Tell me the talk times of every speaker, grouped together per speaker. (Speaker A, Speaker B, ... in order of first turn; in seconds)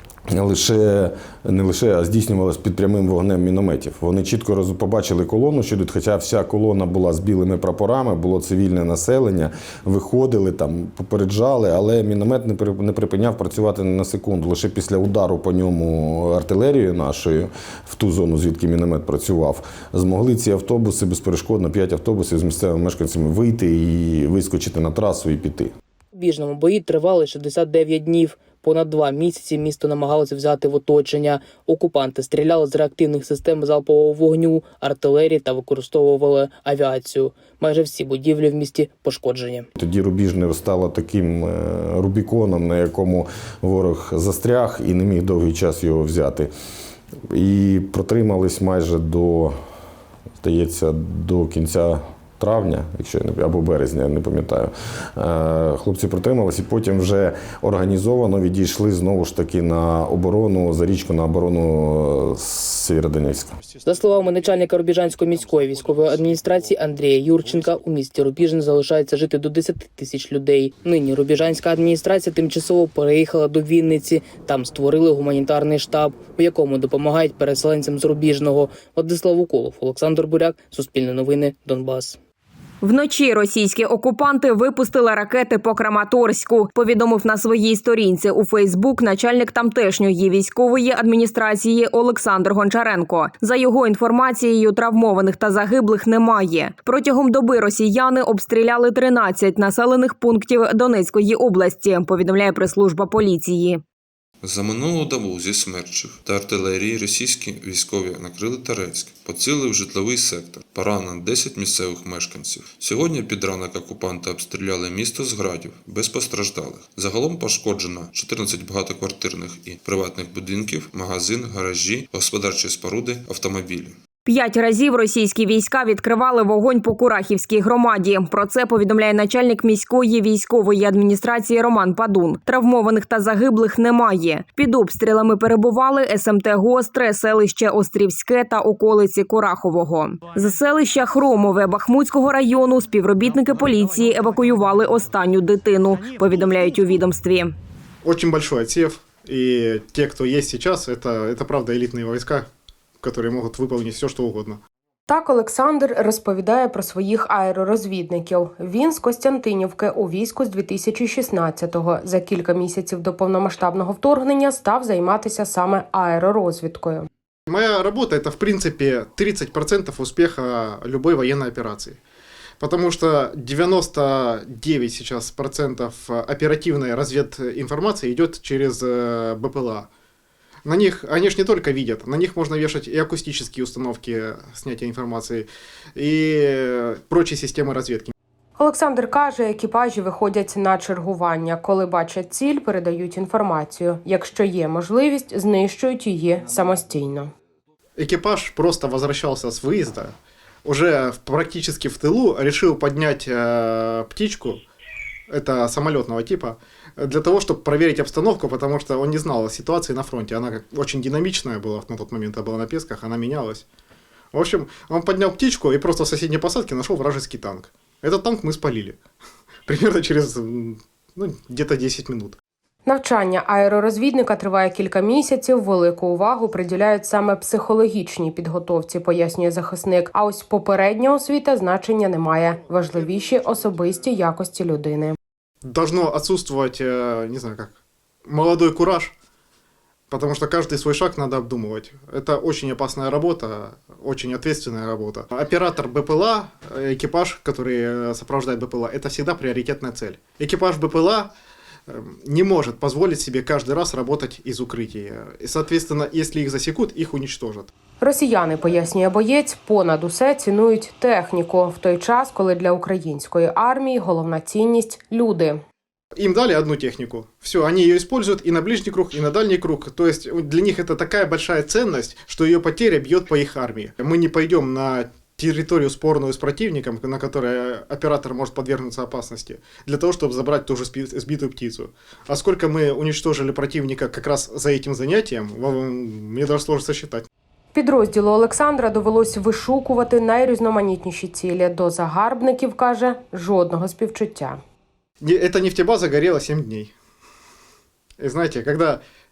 Speaker A: 0.3-25.7, 39.8-46.5, 47.3-49.5, 50.4-63.5
Speaker B: 26.1-39.7, 63.8-82.2
Speaker C: 82.8-103.8, 124.2-147.5
Speaker D: 104.4-124.0
Speaker E: 148.0-152.5, 153.0-154.6, 167.5-172.0, 172.6-179.9, 180.7-188.1, 198.0-200.1, 200.6-204.6, 205.3-213.6, 214.3-219.0, 219.7-222.4, 235.6-237.7, 238.3-239.1, 240.1-251.3, 251.9-257.7, 266.2-287.3, 295.2-296.9, 298.2-299.0
Speaker F: 155.1-167.1, 188.6-197.3, 222.8-235.2, 258.0-265.6, 287.7-294.6